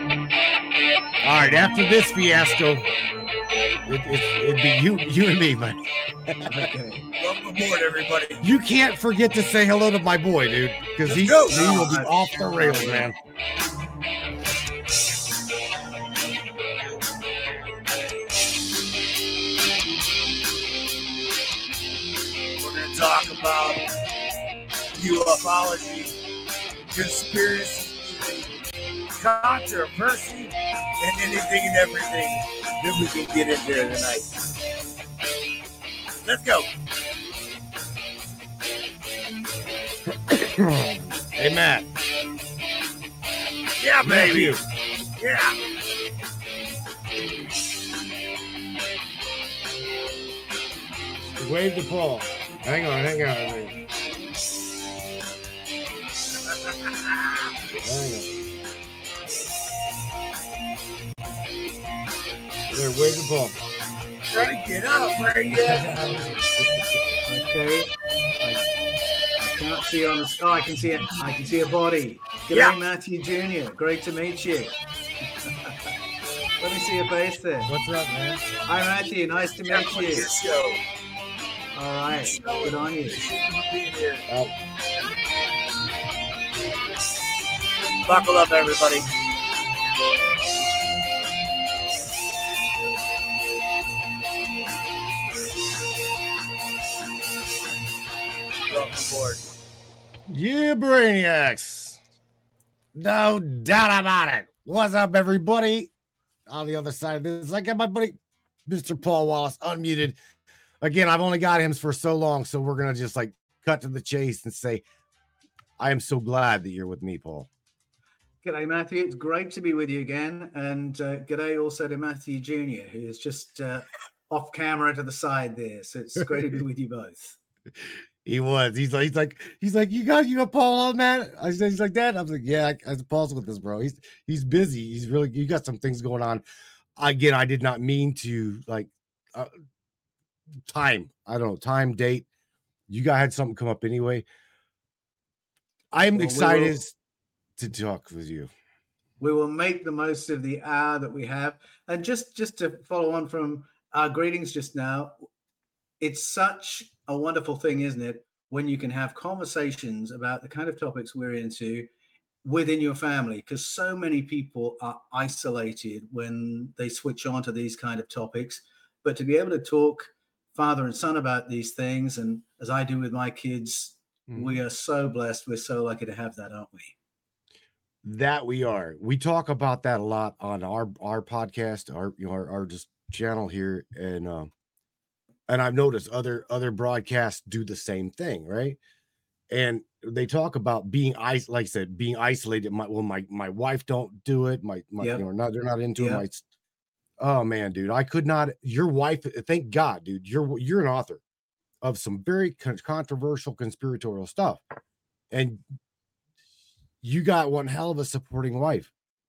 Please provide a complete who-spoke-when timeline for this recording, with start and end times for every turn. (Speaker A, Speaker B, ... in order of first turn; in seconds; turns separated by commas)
Speaker A: 1.2-2.9, Speaker A: 3.9-6.7, Speaker B: 6.5-7.0, Speaker C: 7.1-8.4, Speaker A: 8.4-13.2, Speaker C: 11.1-11.6, Speaker B: 11.2-13.1, Speaker C: 22.5-23.8, Speaker C: 24.9-26.1, Speaker C: 26.9-28.5, Speaker C: 29.2-34.3, Speaker C: 36.2-36.7, Speaker A: 40.1-41.9, Speaker C: 43.8-44.6, Speaker A: 44.0-44.6, Speaker C: 45.2-45.5, Speaker A: 51.4-53.8, Speaker C: 56.8-57.3, Speaker A: 57.8-58.3, Speaker A: 62.7-63.6, Speaker C: 64.3-66.4, Speaker B: 65.6-66.1, Speaker A: 66.6-66.9, Speaker B: 67.2-68.7, Speaker B: 69.4-74.7, Speaker C: 72.5-72.8, Speaker B: 75.4-75.9, Speaker B: 76.6-77.7, Speaker A: 77.7-78.5, Speaker B: 78.7-80.3, Speaker C: 79.6-80.8, Speaker B: 81.7-83.2, Speaker C: 82.1-84.3, Speaker C: 88.0-89.1, Speaker C: 98.7-99.4, Speaker A: 100.3-102.0, Speaker A: 102.9-105.9, Speaker A: 106.5-110.2, Speaker A: 110.8-114.8, Speaker A: 115.8-117.5, Speaker B: 118.4-127.4, Speaker A: 128.2-136.4, Speaker A: 137.0-139.5, Speaker A: 140.7-142.2, Speaker A: 142.9-144.2, Speaker A: 145.9-146.9, Speaker B: 146.1-146.8, Speaker A: 147.6-148.5, Speaker B: 149.2-155.1, Speaker B: 156.0-161.9, Speaker B: 162.4-176.9, Speaker A: 174.3-174.6, Speaker A: 178.0-184.5, Speaker A: 185.5-188.8, Speaker A: 189.5-196.4, Speaker B: 196.0-196.2, Speaker A: 197.2-201.2, Speaker A: 201.8-204.6, Speaker A: 205.3-205.6, Speaker A: 207.0-208.9